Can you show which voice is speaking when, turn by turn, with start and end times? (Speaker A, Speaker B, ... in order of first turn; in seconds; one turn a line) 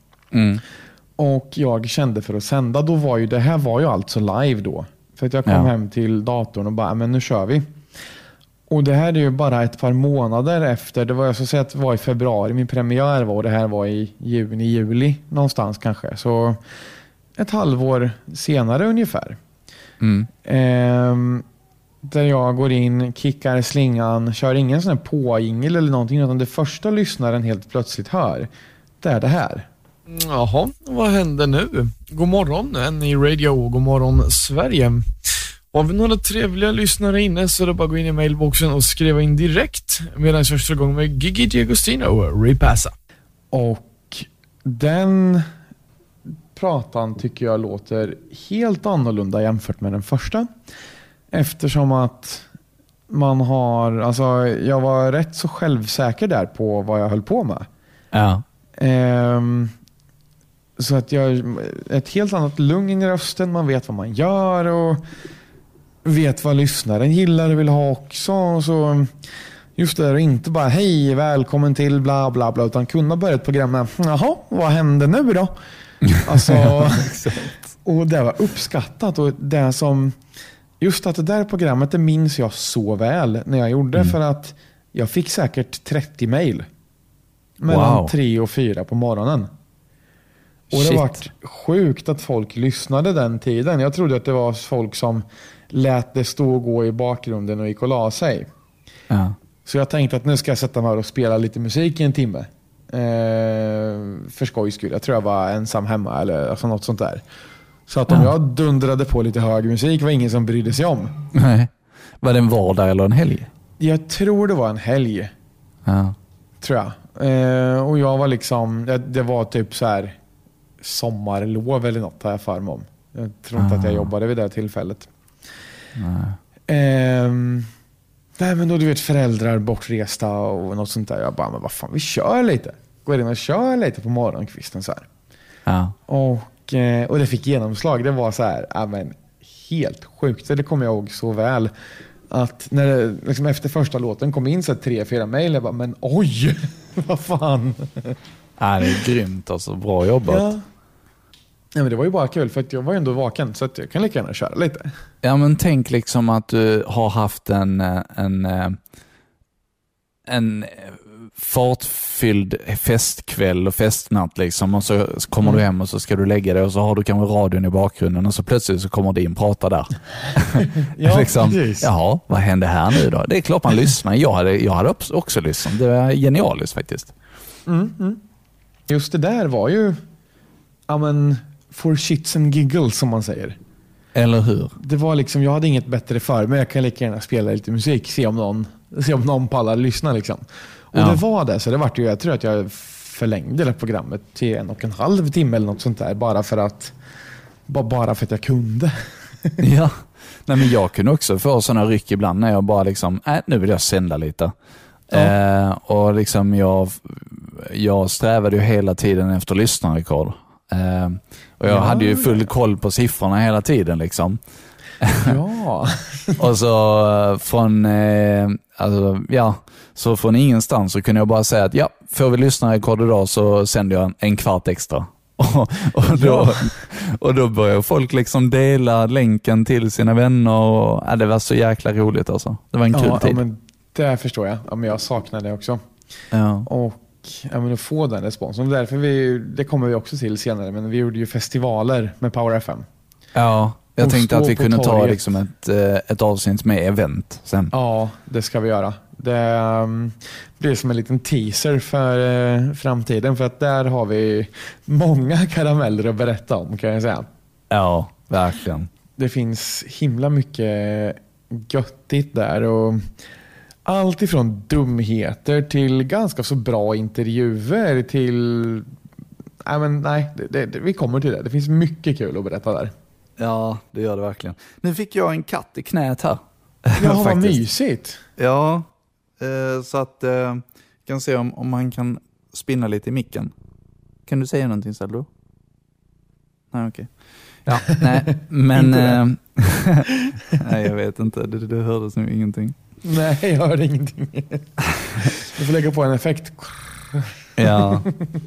Speaker A: 0.3-0.6
Speaker B: 1.2-7.7
Speaker B: 8.7-16.6
Speaker B: 17.4-19.4
Speaker A: 20.0-20.3
Speaker B: 20.4-21.4
Speaker B: 22.0-28.5
Speaker B: 29.0-29.7
Speaker C: 30.2-35.0
Speaker C: 35.7-42.9
Speaker B: 43.5-45.5
Speaker B: 46.5-50.5
Speaker B: 51.3-52.5
Speaker B: 53.1-57.7
Speaker A: 58.1-58.4
Speaker B: 58.8-59.7
Speaker B: 60.8-65.0
Speaker B: 66.0-69.1
Speaker B: 69.8-75.5
Speaker A: 76.1-77.4
Speaker B: 76.2-80.2
Speaker B: 80.8-86.7
Speaker B: 87.6-89.5
Speaker A: 87.7-88.1
Speaker A: 90.7-91.2
Speaker B: 90.7-98.5
Speaker A: 99.1-99.3
Speaker B: 99.6-107.2
Speaker B: 107.9-111.1
Speaker A: 111.3-113.5
Speaker B: 113.8-115.3
Speaker A: 115.8-116.2
Speaker B: 116.6-120.2
Speaker B: 120.8-125.1
Speaker A: 123.6-124.1
Speaker A: 126.0-126.4
Speaker B: 126.7-127.7
Speaker B: 128.4-135.1
Speaker A: 135.7-135.9
Speaker B: 136.1-141.7
Speaker B: 142.3-148.2
Speaker A: 148.6-150.5
Speaker B: 150.3-150.6
Speaker B: 151.7-154.9
Speaker A: 155.2-158.8
Speaker A: 160.3-177.1
Speaker B: 170.6-171.9
Speaker B: 177.7-178.2
Speaker B: 178.9-180.0
Speaker B: 180.9-183.6
Speaker A: 184.1-184.7
Speaker B: 184.8-196.9
Speaker A: 190.9-191.2
Speaker B: 197.7-199.6
Speaker A: 199.6-204.5
Speaker A: 205.1-214.4
Speaker B: 211.6-212.4
Speaker A: 215.0-215.3
Speaker B: 215.2-216.4
Speaker A: 216.4-233.4
Speaker B: 226.1-226.7
Speaker B: 232.9-235.8
Speaker A: 236.3-236.7
Speaker B: 236.6-242.8
Speaker A: 243.3-247.7
Speaker B: 244.0-245.2
Speaker B: 247.7-257.3
Speaker A: 257.7-258.9
Speaker B: 259.2-263.1
Speaker B: 263.9-268.9
Speaker B: 269.6-272.9
Speaker A: 273.4-277.6
Speaker B: 277.0-278.2
Speaker A: 278.4-283.5
Speaker A: 284.3-285.3
Speaker A: 286.7-287.1
Speaker A: 287.6-292.7
Speaker B: 287.9-289.2
Speaker B: 293.0-298.3
Speaker A: 297.6-298.1